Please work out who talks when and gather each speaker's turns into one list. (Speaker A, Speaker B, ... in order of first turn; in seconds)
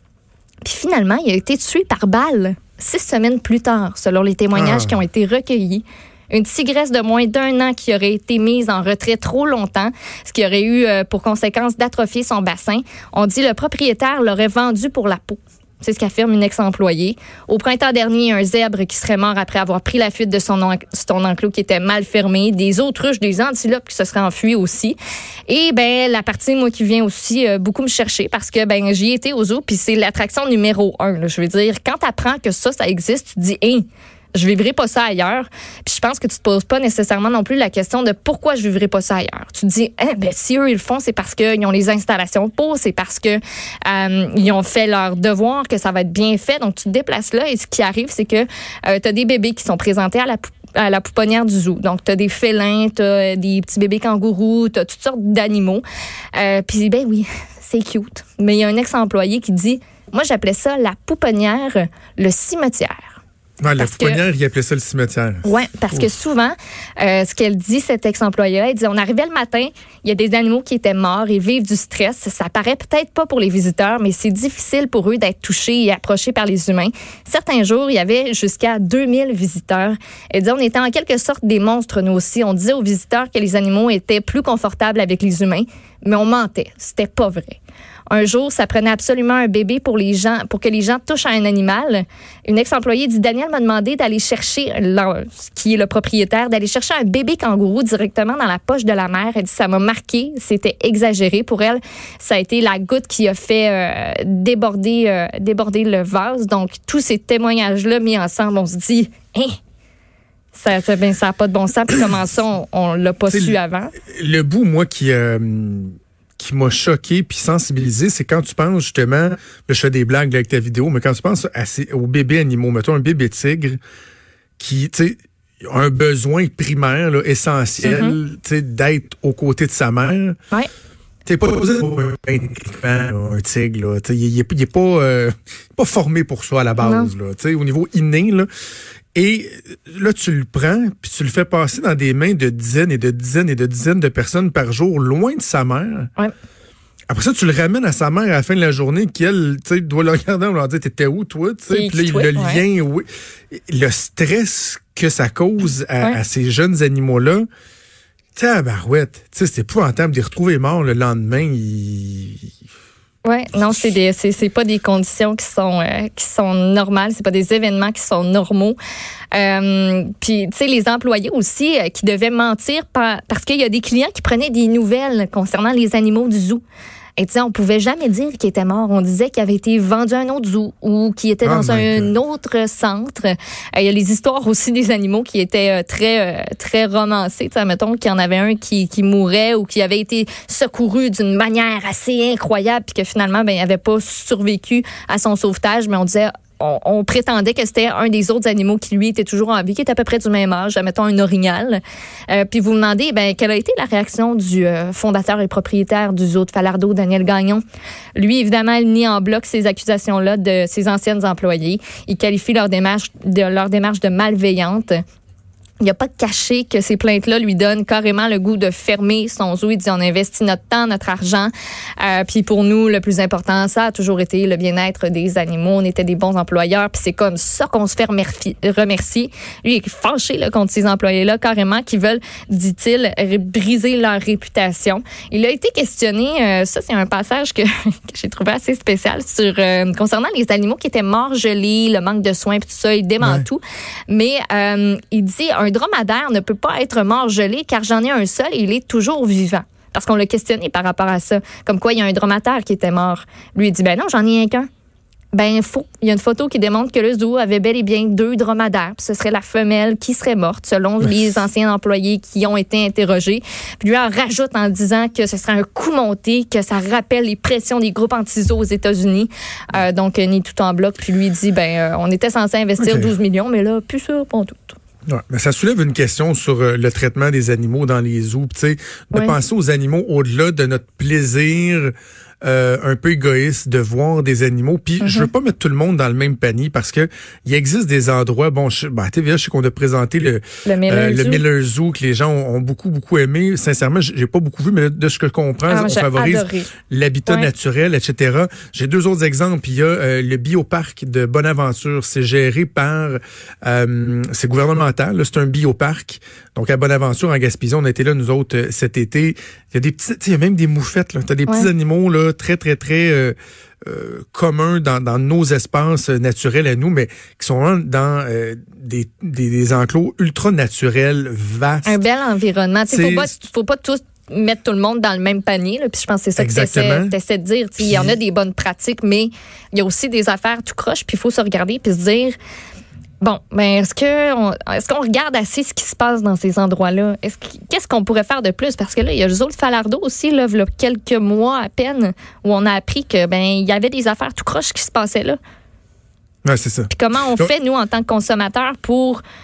Speaker A: 0.6-24.9, 25.5-55.8, 56.3-63.2, 63.8-64.2, 65.4-109.6, 110.5-113.9, 127.8-128.2, 136.8-137.1, 151.7-152.6, 163.2-168.8, 169.3-176.6, 177.2-207.6, 208.2-215.0, 215.8-254.7, 255.3-274.8, 285.0-285.3, 290.6-291.4, 295.7-296.7, 321.8-332.3, 333.2-345.4, 346.9-349.2
Speaker B: 4.5-5.0, 63.6-66.1, 113.3-123.8, 124.6-130.4, 131.2-138.5, 139.1-146.1, 147.1-157.4, 158.3-162.5, 181.4-182.1, 243.2-243.5, 272.8-273.1, 275.1-281.9, 282.4-322.0, 322.9-323.3, 326.4-327.1, 327.8-328.1, 346.4-347.5